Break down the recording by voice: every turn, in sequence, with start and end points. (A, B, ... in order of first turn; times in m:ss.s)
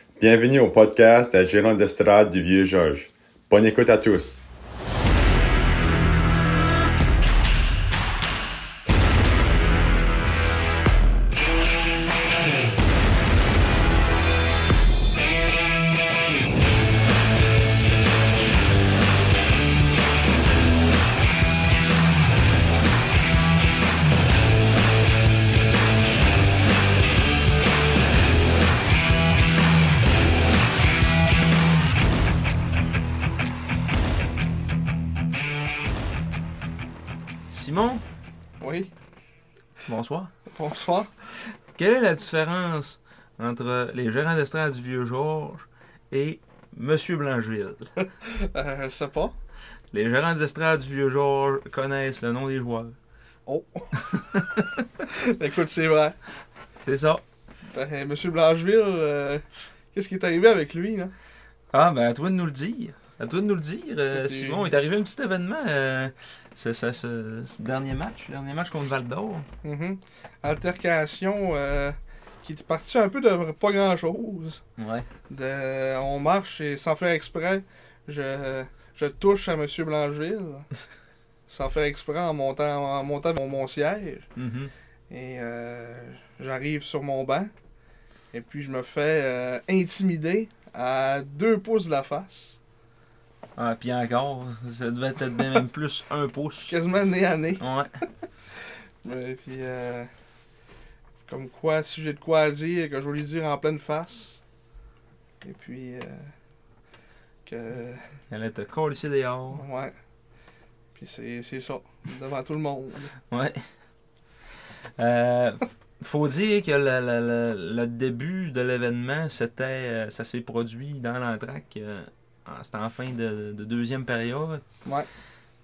0:00.2-0:04.4 A
0:37.5-0:38.0 B
0:38.6-0:38.9 C
0:39.9-0:40.3 B
0:40.5-0:41.5 C
0:41.8-0:47.9 B
0:48.2-0:49.4 C
0:49.9-0:53.0 B
0:53.5-0:56.2 C
0:54.0-0:54.8 B
0:56.8-0:57.2 B
0:57.7-1:01.1 C
1:01.7-1:09.5 B
1:04.1-1:04.7 C
1:09.6-1:14.6 C
1:14.8-1:15.1 B
1:15.3-1:20.7 C
1:21.5-1:24.3 C
1:24.4-1:24.7 B
1:25.1-1:27.5 C
1:28.3-1:32.6 C
1:33.6-1:36.8 B
1:36.7-1:37.6 C
1:37.6-1:37.9 B
1:39.0-1:40.1 C
1:41.3-1:44.4 C
1:45.4-1:46.3 C
1:47.5-1:48.1 C
1:48.3-1:49.6 B
1:49.5-1:50.0 C
1:51.0-1:53.1 C
1:53.3-1:53.6 B
1:55.0-2:04.6 B